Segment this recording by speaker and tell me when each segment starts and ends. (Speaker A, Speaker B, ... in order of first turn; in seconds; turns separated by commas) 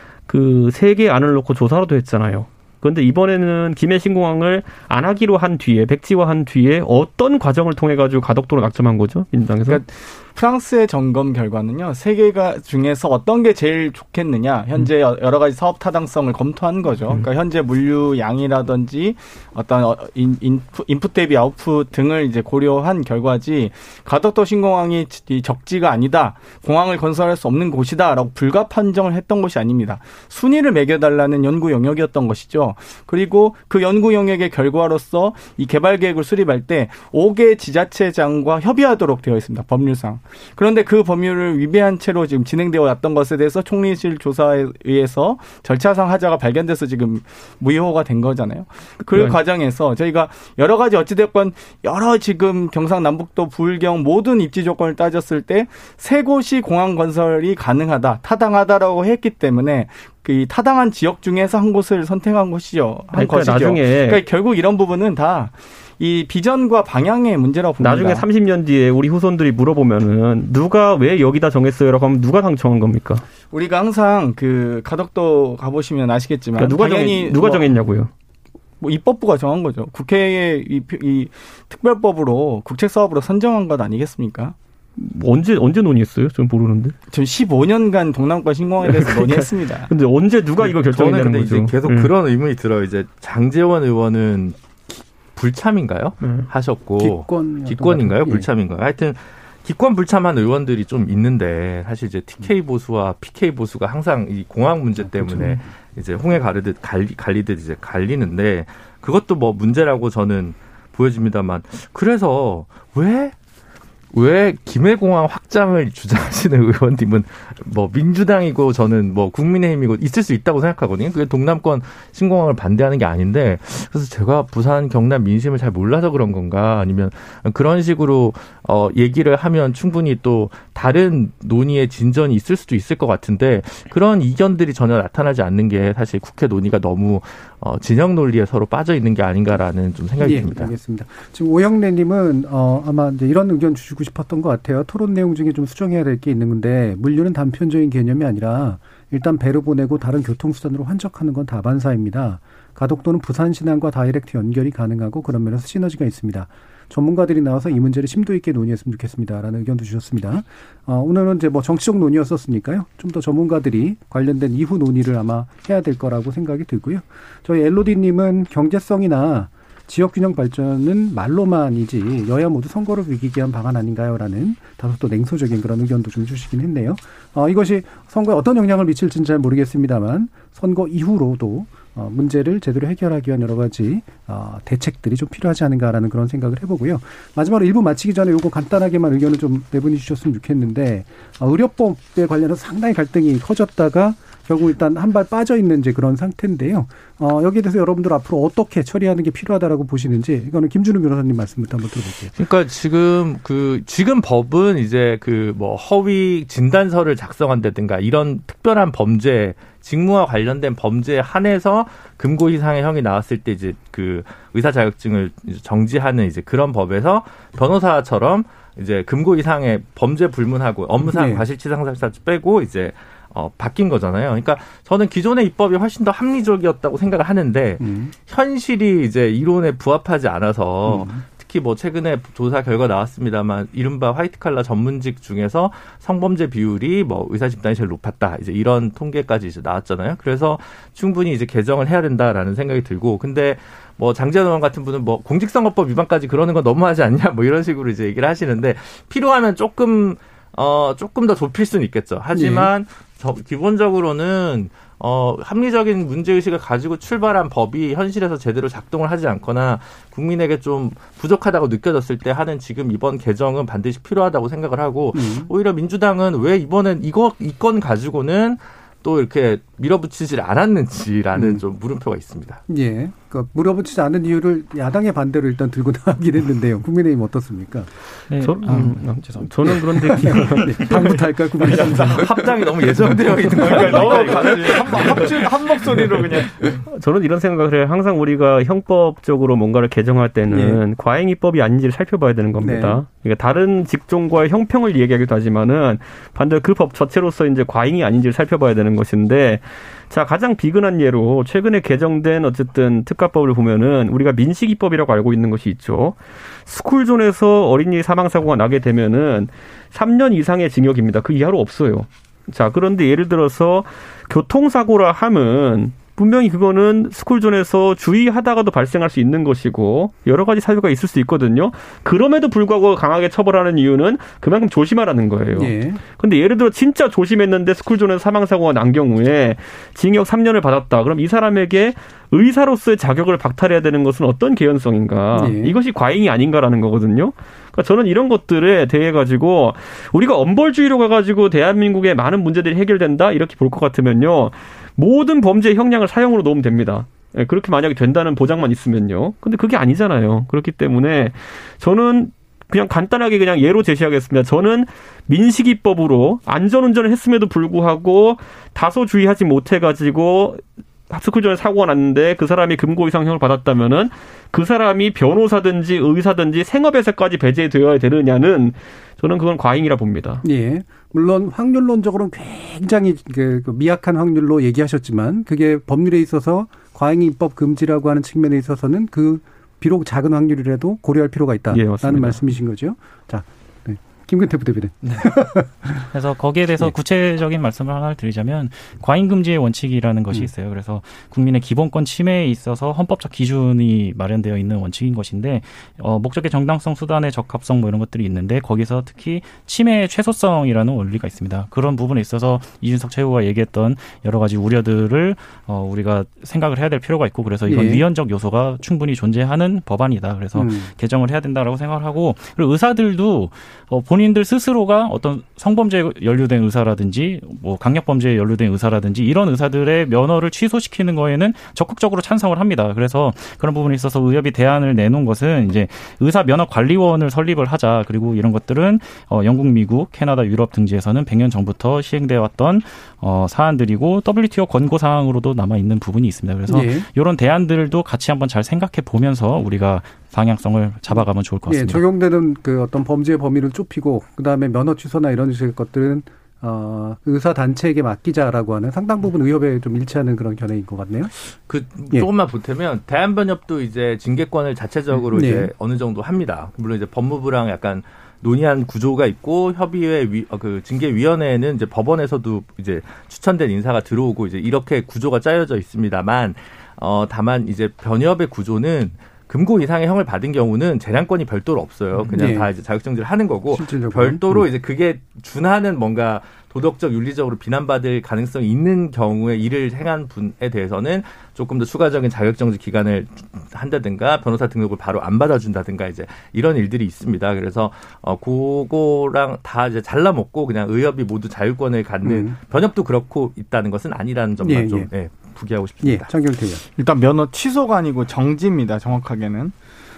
Speaker A: 0.3-9.8, Speaker B: 9.7-68.3, Speaker A: 49.1-49.4, Speaker A: 63.1-64.2, Speaker A: 67.8-73.2, Speaker B: 73.5-77.7, Speaker A: 76.6-78.1, Speaker B: 78.8-84.5, Speaker A: 85.0-87.0, Speaker B: 87.1-89.9, Speaker A: 88.8-92.1, Speaker C: 90.6-113.3, Speaker A: 96.2-96.5, Speaker D: 97.0-98.5, Speaker D: 105.0-105.6, Speaker C: 114.1-140.7, Speaker D: 140.2-202.3, Speaker C: 202.4-272.6, Speaker D: 221.0-221.4, Speaker D: 227.8-228.1, Speaker D: 230.8-231.2, Speaker D: 252.3-252.7, Speaker D: 265.1-265.5, Speaker D: 271.4-271.6, Speaker D: 272.7-277.9, Speaker E: 278.3-281.1, Speaker A: 278.4-282.2, Speaker D: 278.7-278.9, Speaker D: 279.7-282.3, Speaker C: 281.9-285.4, Speaker B: 283.5-286.8, Speaker D: 283.6-283.8, Speaker A: 283.6-285.4, Speaker A: 286.9-370.4, Speaker D: 290.5-290.8, Speaker D: 292.6-293.0, Speaker D: 325.6-326.0, Speaker D: 335.3-335.8, Speaker D: 370.4-386.1, Speaker A: 381.7-382.5, Speaker E: 385.0-385.3, Speaker E: 386.1-442.0, Speaker D: 407.7-408.0, Speaker D: 410.6-410.9, Speaker D: 436.7-437.1, Speaker D: 441.1-451.3, Speaker C: 451.5-496.3, Speaker D: 455.3-455.7, Speaker D: 472.3-472.7, Speaker D: 473.7-474.7, Speaker D: 492.2-492.6, Speaker D: 494.6-495.1, Speaker D: 496.0-496.8, Speaker B: 497.0-499.7